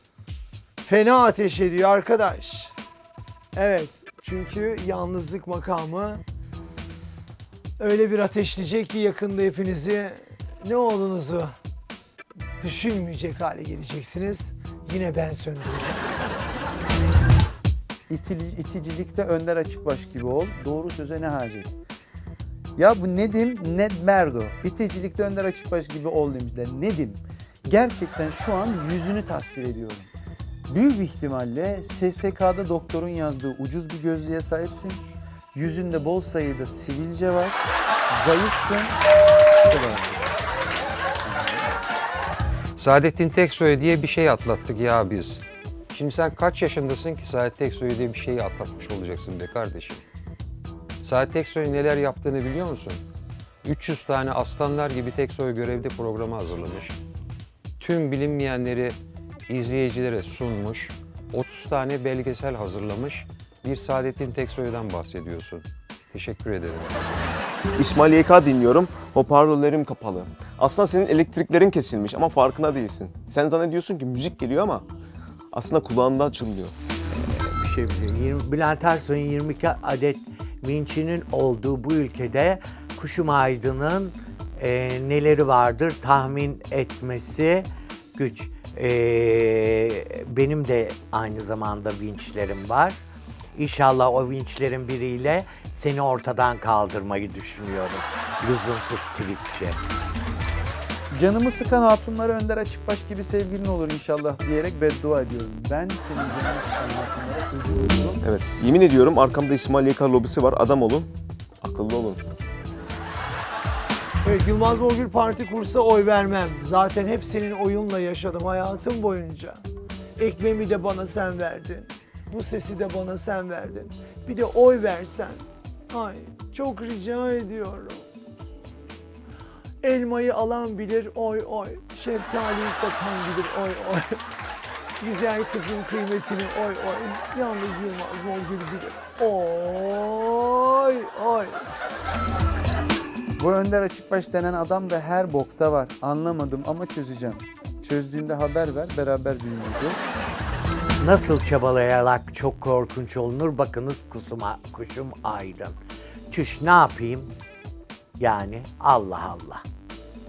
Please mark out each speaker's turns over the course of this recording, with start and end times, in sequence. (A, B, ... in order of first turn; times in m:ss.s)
0:00.8-0:02.7 A
0:03.5-0:06.2 A
0:07.8-0:11.6 A
0:12.6-0:16.5 A
0:18.1-0:21.8 B
0:22.8-0:30.1 B
0:30.7-0:39.0 B
0:39.5-0:40.4 B
0:41.2-0:41.8 B
0:42.8-0:50.0 C
0:51.0-0:53.0 C
0:53.6-0:57.0 C
0:57.8-1:07.1 C
1:07.8-1:14.8 D
1:15.5-1:16.7 D
1:17.2-1:33.0 E
1:33.6-1:39.8 E
1:41.1-1:48.2 B
1:48.2-1:51.1 D
1:51.6-1:52.2 D
1:54.2-1:59.6 A
2:00.2-2:08.1 A
2:09.8-2:14.2 A
2:15.0-2:21.7 A
2:23.4-2:30.1 B
2:31.0-2:35.8 E
2:36.3-2:37.3 E
2:38.2-2:39.6 E